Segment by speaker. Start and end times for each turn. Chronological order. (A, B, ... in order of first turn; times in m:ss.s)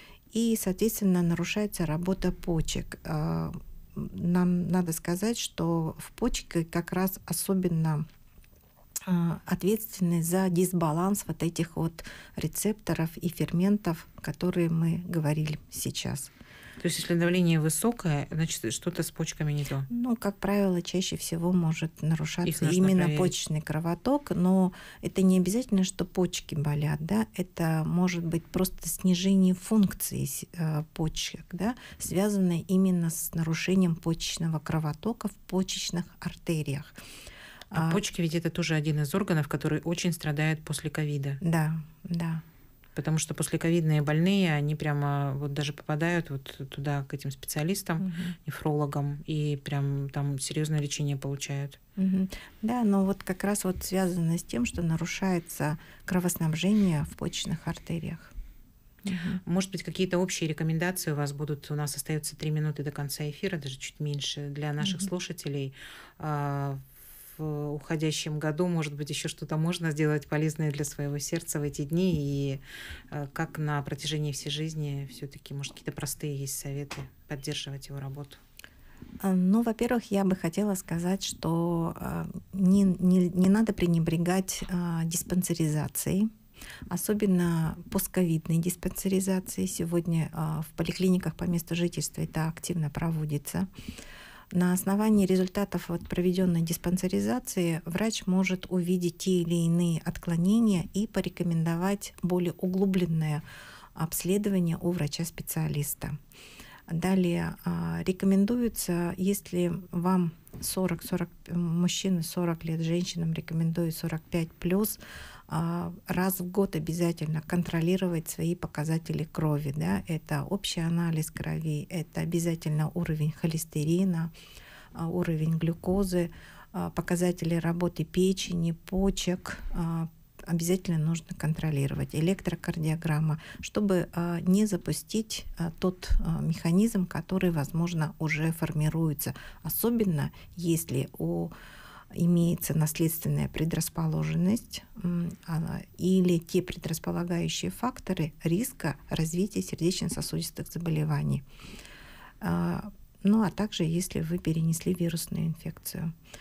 0:00.3-0:08.0 A
0:09.0-0:16.3 A
0:16.8-0:19.9 B
0:19.9-0:37.0 A
0:22.4-0:23.3 B
0:37.7-0:38.0 A
0:37.7-0:41.4 B
0:41.4-0:42.4 A
0:43.0-0:51.8 B
0:48.0-0:48.3 A
0:52.0-0:58.3 A
0:59.0-0:59.4 A
0:59.4-1:18.4 B
1:04.8-1:05.1 A
1:19.2-1:26.3 A
1:26.9-1:33.7 A
1:34.5-1:43.4 A
1:43.9-1:46.2 A
1:46.9-2:04.3 A
2:04.9-2:21.5 A
2:22.1-2:31.4 A
2:32.4-2:36.1 A